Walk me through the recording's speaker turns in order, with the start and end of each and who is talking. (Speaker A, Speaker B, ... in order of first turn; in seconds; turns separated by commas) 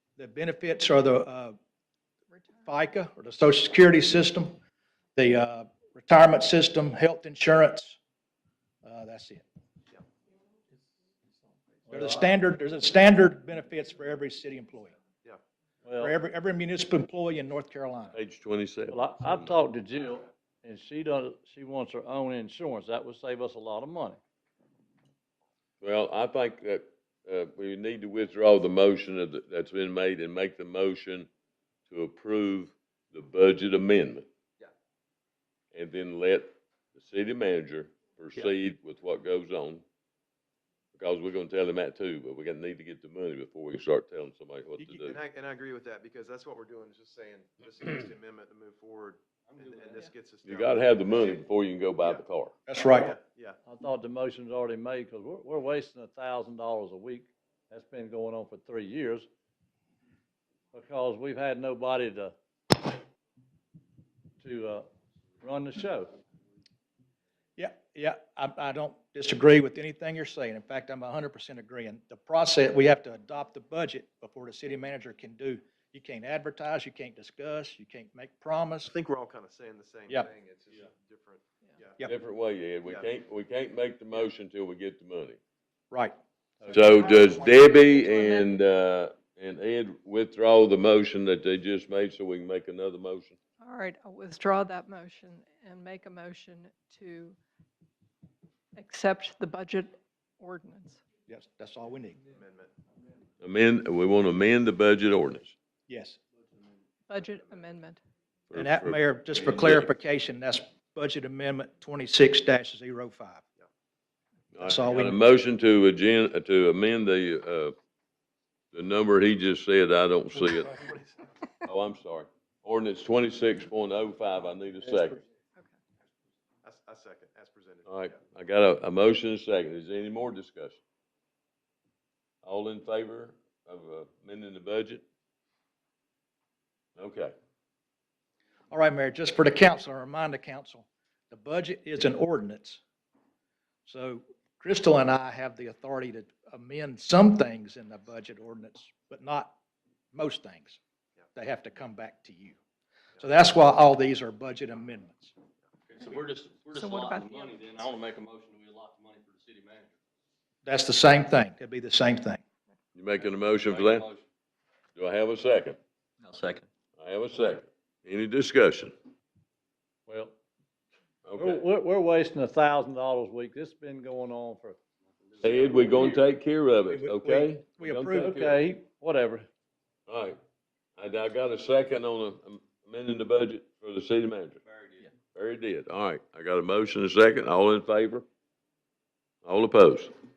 Speaker A: 0.2-1.6, Speaker B: 2.3-2.9, Speaker A: 2.7-4.6, Speaker A: 5.2-8.0, Speaker A: 8.8-9.4, Speaker C: 11.9-12.3, Speaker A: 11.9-15.0, Speaker C: 15.8-16.1, Speaker A: 16.0-18.2, Speaker D: 18.1-19.5, Speaker C: 18.9-24.2, Speaker D: 25.8-31.3, Speaker D: 31.9-34.3, Speaker D: 35.7-39.8, Speaker D: 41.0-45.2, Speaker A: 44.8-45.0, Speaker E: 45.1-51.5, Speaker F: 49.5-50.1, Speaker D: 50.4-52.5, Speaker A: 52.7-53.1, Speaker E: 52.9-53.6, Speaker C: 53.7-59.3, Speaker C: 60.7-62.3, Speaker C: 64.4-64.9, Speaker C: 65.4-66.1, Speaker A: 67.6-78.9, Speaker E: 78.8-82.0, Speaker D: 82.0-85.4, Speaker C: 86.6-87.0, Speaker D: 86.7-93.4, Speaker B: 87.1-88.5, Speaker B: 93.6-97.4, Speaker B: 98.8-101.0, Speaker A: 101.3-102.2, Speaker E: 102.2-102.7, Speaker D: 103.4-105.5, Speaker A: 105.9-106.2, Speaker B: 107.1-108.0, Speaker E: 107.2-107.7, Speaker D: 108.5-109.9, Speaker A: 108.5-113.4, Speaker D: 114.5-117.8, Speaker A: 114.6-115.2, Speaker D: 118.7-120.9, Speaker E: 120.7-121.2, Speaker D: 121.6-125.2, Speaker E: 126.6-128.2, Speaker D: 127.9-130.8, Speaker D: 132.4-135.0, Speaker D: 137.0-137.3, Speaker A: 138.7-142.8, Speaker A: 143.9-149.6, Speaker A: 150.1-150.8, Speaker A: 151.4-152.6, Speaker A: 153.2-155.3, Speaker F: 155.9-160.0, Speaker B: 156.0-157.6, Speaker A: 160.6-162.4, Speaker D: 162.9-164.1, Speaker F: 163.2-164.2, Speaker D: 165.0-165.8, Speaker F: 166.2-166.6, Speaker D: 167.0-168.9, Speaker C: 170.1-170.3, Speaker D: 171.2-171.7, Speaker C: 171.3-174.8, Speaker F: 175.1-176.2, Speaker D: 175.4-178.6, Speaker A: 176.9-178.4, Speaker C: 178.0-179.5, Speaker D: 180.1-180.4, Speaker D: 181.0-184.6, Speaker F: 184.7-185.1, Speaker D: 185.3-188.3, Speaker D: 189.4-190.1